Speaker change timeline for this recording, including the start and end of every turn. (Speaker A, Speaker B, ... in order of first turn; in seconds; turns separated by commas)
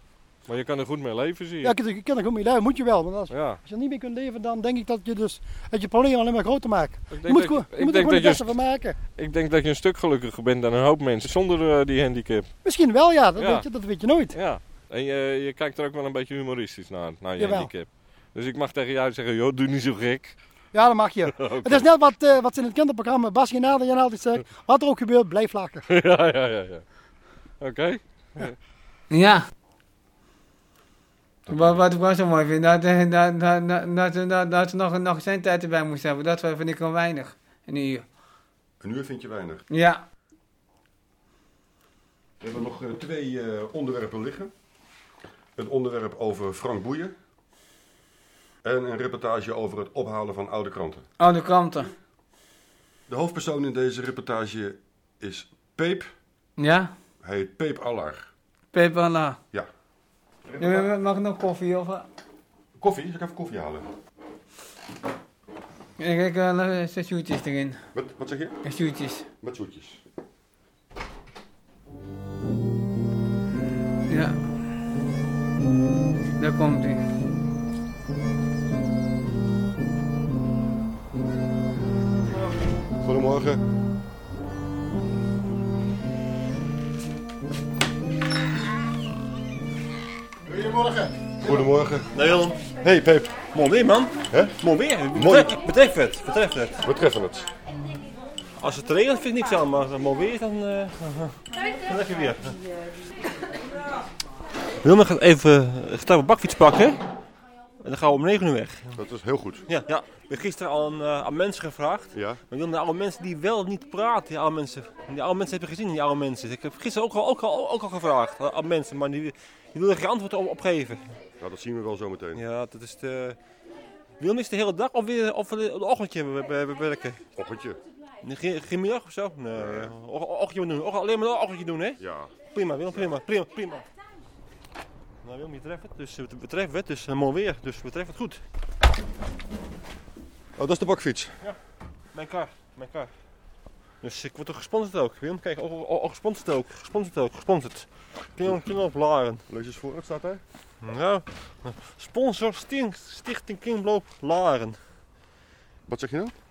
Speaker A: 0.5-1.8, Speaker B: 1.6-9.0, Speaker A: 3.3-3.6, Speaker A: 7.1-8.6, Speaker A: 9.2-12.5, Speaker B: 12.6-14.4, Speaker A: 13.3-13.7, Speaker A: 14.3-20.3, Speaker B: 17.4-17.7, Speaker B: 20.7-25.8, Speaker A: 21.4-21.9, Speaker A: 25.9-26.8, Speaker A: 27.6-28.5, Speaker C: 29.1-29.4, Speaker C: 31.5-38.1, Speaker D: 38.8-39.6, Speaker C: 39.7-40.0, Speaker D: 42.4-44.5, Speaker D: 45.5-47.1, Speaker D: 48.6-51.0, Speaker C: 51.2-51.9, Speaker D: 53.1-56.1, Speaker C: 56.6-56.9, Speaker D: 57.2-58.3, Speaker C: 58.7-59.4, Speaker D: 60.5-60.9, Speaker C: 60.6-62.0, Speaker D: 62.8-63.9, Speaker C: 66.0-67.8, Speaker D: 67.9-68.6, Speaker C: 68.6-69.3, Speaker D: 69.4-70.0, Speaker C: 74.1-74.4, Speaker C: 76.4-77.1, Speaker D: 83.0-83.6, Speaker D: 91.4-92.1, Speaker E: 92.1-92.6, Speaker D: 92.7-93.4, Speaker E: 93.5-96.8, Speaker D: 95.1-95.6, Speaker D: 96.8-97.5, Speaker E: 98.6-102.6, Speaker E: 104.8-107.0, Speaker E: 107.8-109.0, Speaker D: 108.9-109.6, Speaker E: 109.7-121.2, Speaker D: 112.1-112.4, Speaker D: 121.4-122.4, Speaker E: 122.3-123.4, Speaker E: 124.2-127.2, Speaker D: 127.3-127.8, Speaker E: 128.2-133.8, Speaker D: 129.5-129.9, Speaker D: 132.0-133.1, Speaker E: 135.2-138.4, Speaker D: 140.6-141.3, Speaker E: 142.1-143.1, Speaker E: 144.0-149.4, Speaker D: 149.5-150.4, Speaker E: 150.8-154.8, Speaker D: 155.9-156.3